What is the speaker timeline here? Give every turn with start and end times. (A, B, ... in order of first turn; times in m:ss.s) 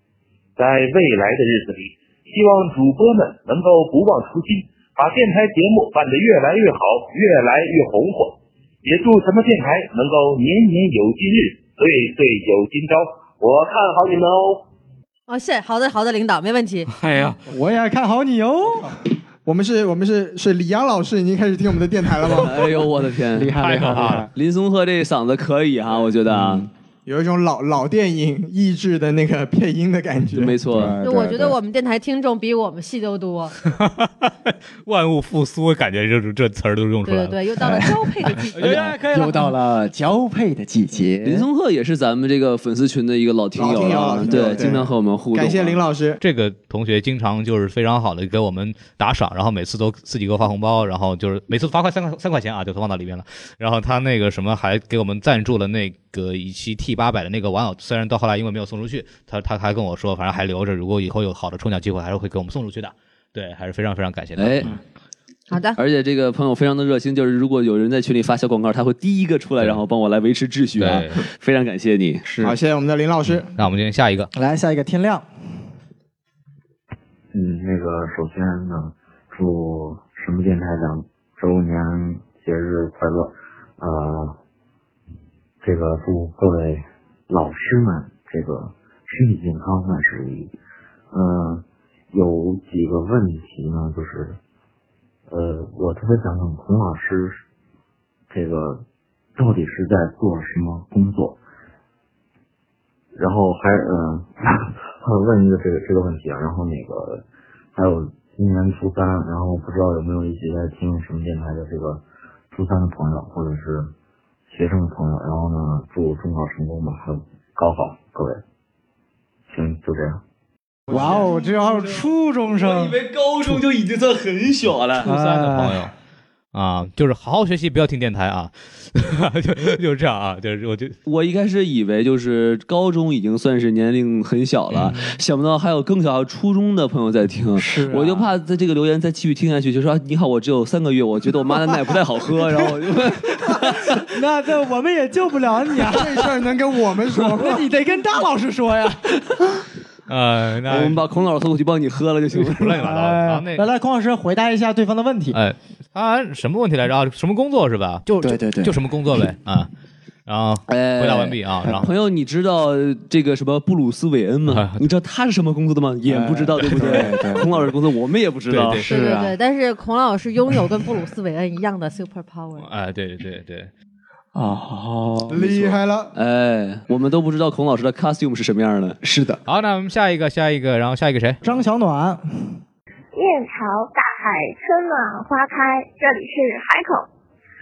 0:00.6-0:14.6 A
0:15.3-0:16.9 B
0:17.0-0:17.4 C
0:17.5-0:18.9 D
0:19.5-0:22.6 E
0:22.3-0:23.5 F
0:23.4-0:24.3 D
0:23.6-0:24.3 C
0:24.3-0:26.7 F
0:27.1-0:30.6 E
0:30.3-0:31.0 F
0:30.7-0:31.6 D
0:31.0-0:33.5 B
0:33.7-0:37.4 C
0:37.0-0:39.0 B
0:37.6-0:37.9 D
0:38.6-0:39.5 C
0:38.6-0:41.5 D
0:41.2-0:45.8 F
0:43.6-0:46.2 E
0:44.3-0:44.6 D
0:46.2-1:04.8 C
1:04.4-1:04.7 F
1:05.5-1:05.8 B
1:05.8-1:12.2 F
1:10.8-1:11.2 C
1:12.3-1:12.5 D
1:12.4-1:13.5 E
1:13.6-1:14.3 C
1:14.3-1:15.3 D
1:17.3-1:24.4 G
1:25.6-1:30.6 G
1:31.1-1:34.4 G
1:35.3-1:37.4 G
1:38.3-1:38.8 G
1:39.4-1:41.4 G
1:43.1-1:53.9 G
1:54.5-1:58.4 G
1:59.5-2:00.2 G
2:00.9-2:03.0 D
2:00.9-2:05.0 F
2:05.0-2:05.9 D
2:05.0-2:05.9 C
2:06.5-2:10.9 C
2:11.1-2:24.0 F
2:14.8-2:15.1 D
2:17.6-2:18.3 D
2:23.3-2:26.1 D
2:25.9-2:27.6 E
2:27.4-2:29.0 D
2:30.1-2:31.0 C
2:30.7-2:32.8 F
2:32.4-2:33.7 C
2:32.7-2:35.4 D
2:35.3-2:39.7 C
2:38.2-2:38.8 D
2:40.3-2:41.9 C
2:40.7-2:48.8 F
2:44.5-2:44.8 C
2:46.1-2:47.5 D
2:46.8-2:47.0 C
2:48.5-2:48.9 C
2:48.8-2:49.3 D
2:48.9-2:52.7 B
2:52.6-2:53.7 C
2:54.4-2:55.8 D
2:55.3-2:56.1 E
2:56.1-2:59.0 F
2:59.0-2:59.4 D
2:59.5-3:01.4 C
3:01.4-3:02.6 D
3:03.1-3:07.1 H